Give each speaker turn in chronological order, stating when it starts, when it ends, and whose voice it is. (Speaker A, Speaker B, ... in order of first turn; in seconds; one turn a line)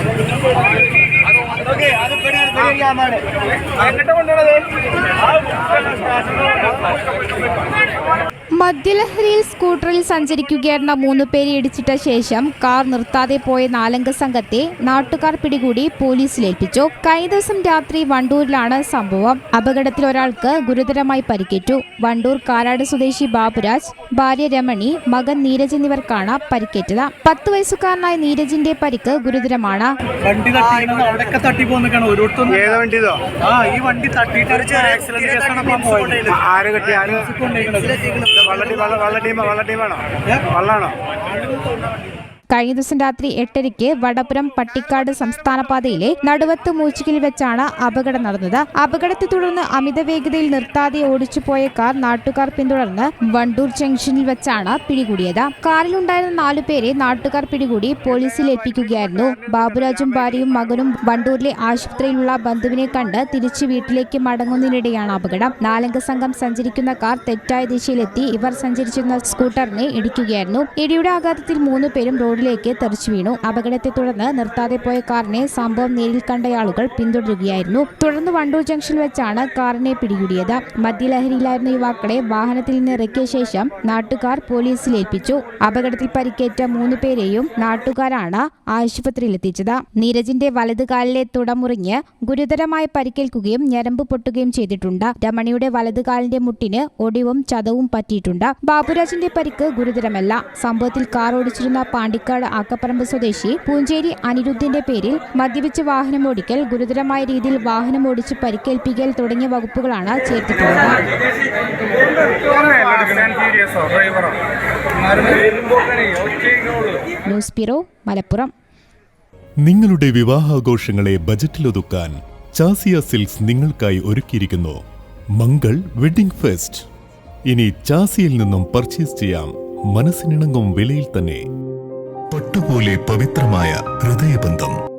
Speaker A: 2.5-2.8
Speaker B: 3.9-4.5
Speaker C: 8.6-29.9
Speaker B: 30.2-32.8
Speaker A: 32.5-33.2
Speaker B: 33.4-36.4
Speaker A: 34.7-37.3
Speaker B: 37.0-38.4
Speaker A: 38.3-41.0
Speaker C: 42.5-111.0
Speaker C: 117.3-118.5
Speaker D: 119.6-124.8
Speaker D: 125.4-126.8
Speaker D: 127.5-131.4
Speaker D: 132.3-134.8